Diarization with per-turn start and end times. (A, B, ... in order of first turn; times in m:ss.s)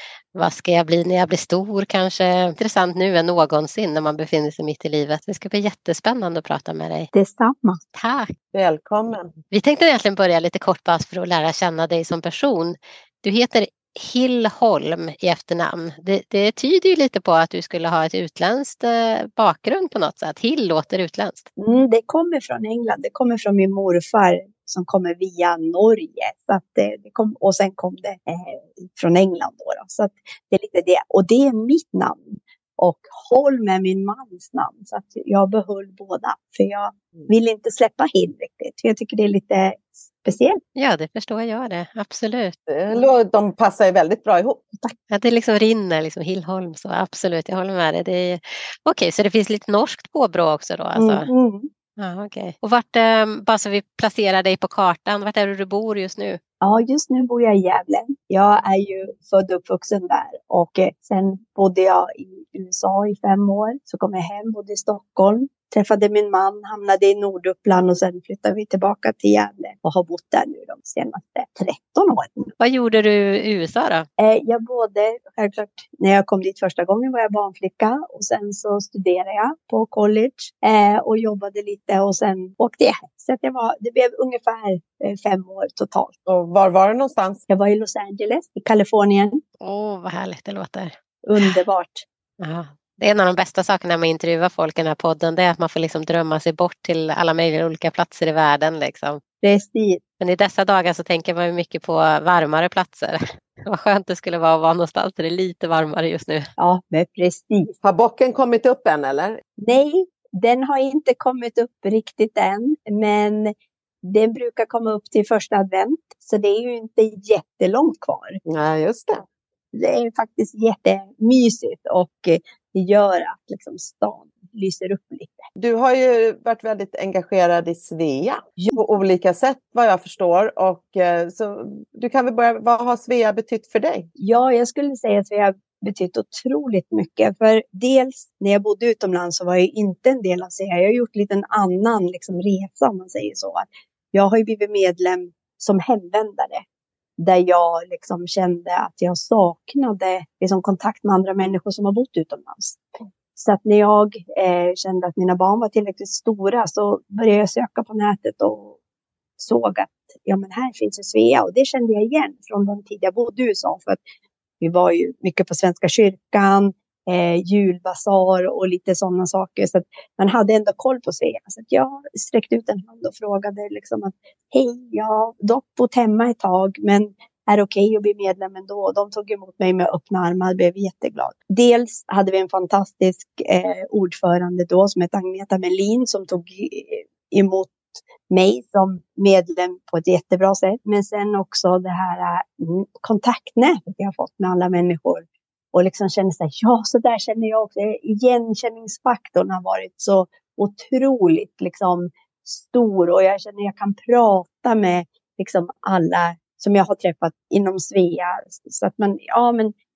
0:00.4-0:07.1 A
0:07.1-0:07.8 B
0:07.9-0:08.3 A
0:08.5-0:09.3 C
0:09.5-0:21.5 A
0:21.6-0:40.6 B
0:40.8-0:42.6 A
0:42.7-0:44.6 C
0:45.1-0:51.3 A
0:51.0-0:51.7 B
0:52.0-0:56.4 A
0:56.6-1:12.5 B
1:12.6-1:14.1 A
1:14.2-1:26.1 B
1:26.3-1:27.4 C
1:27.5-1:29.4 B
1:29.6-1:31.5 A
1:31.2-1:32.0 B
1:32.4-1:39.2 A
1:39.4-1:40.0 B
1:40.2-1:46.5 A
1:46.6-1:47.7 B
1:47.8-1:49.4 C
1:49.6-1:58.4 B
1:58.5-1:59.2 C
1:59.7-2:05.5 B
2:05.6-2:14.1 C
2:14.2-2:26.6 B
2:27.2-2:32.8 B
2:33.4-2:38.8 B
2:39.4-2:44.0 B
2:44.6-3:29.7 B